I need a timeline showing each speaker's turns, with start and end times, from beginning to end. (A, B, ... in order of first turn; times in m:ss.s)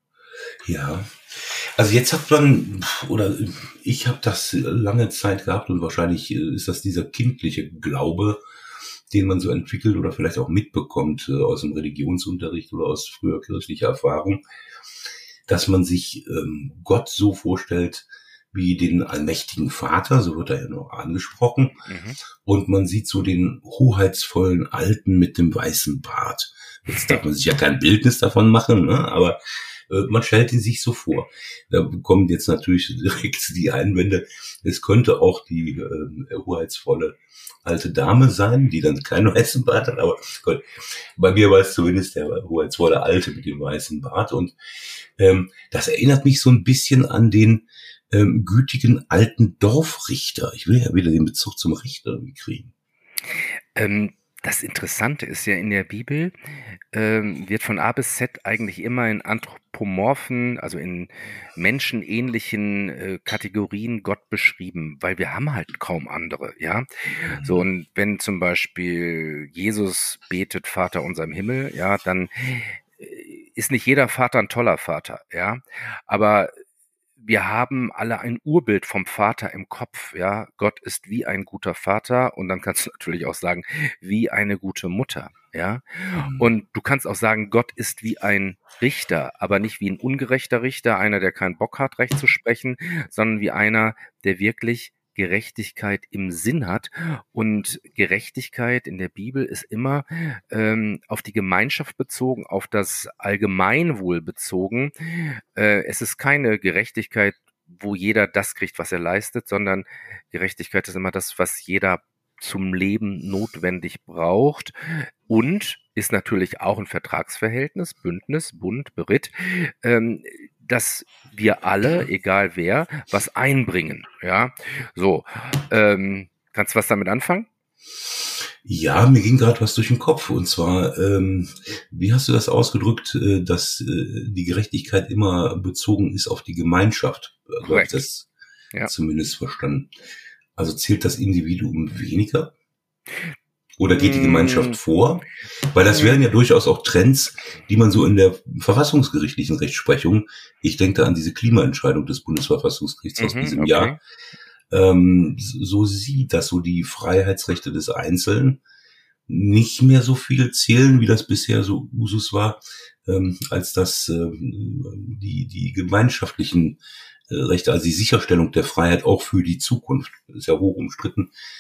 0:00.6-0:08.4 A
0:09.1-0:14.4 A
0:15.5-0:21.8 A
0:21.9-0:22.2 B
0:22.4-0:44.6 A
0:45.2-0:52.7 A
0:53.8-0:56.3 B
0:56.9-1:16.5 B
1:07.3-1:07.6 A
1:17.2-2:07.5 B
1:26.1-1:26.5 A
2:08.6-2:18.3 A
2:17.6-2:18.0 B
2:18.9-2:19.9 A
2:20.6-2:22.5 A
2:23.8-2:34.0 A
2:23.9-2:24.8 B
2:25.9-2:26.2 B
2:33.2-2:34.0 B
2:34.7-2:38.6 A
2:39.3-2:51.3 A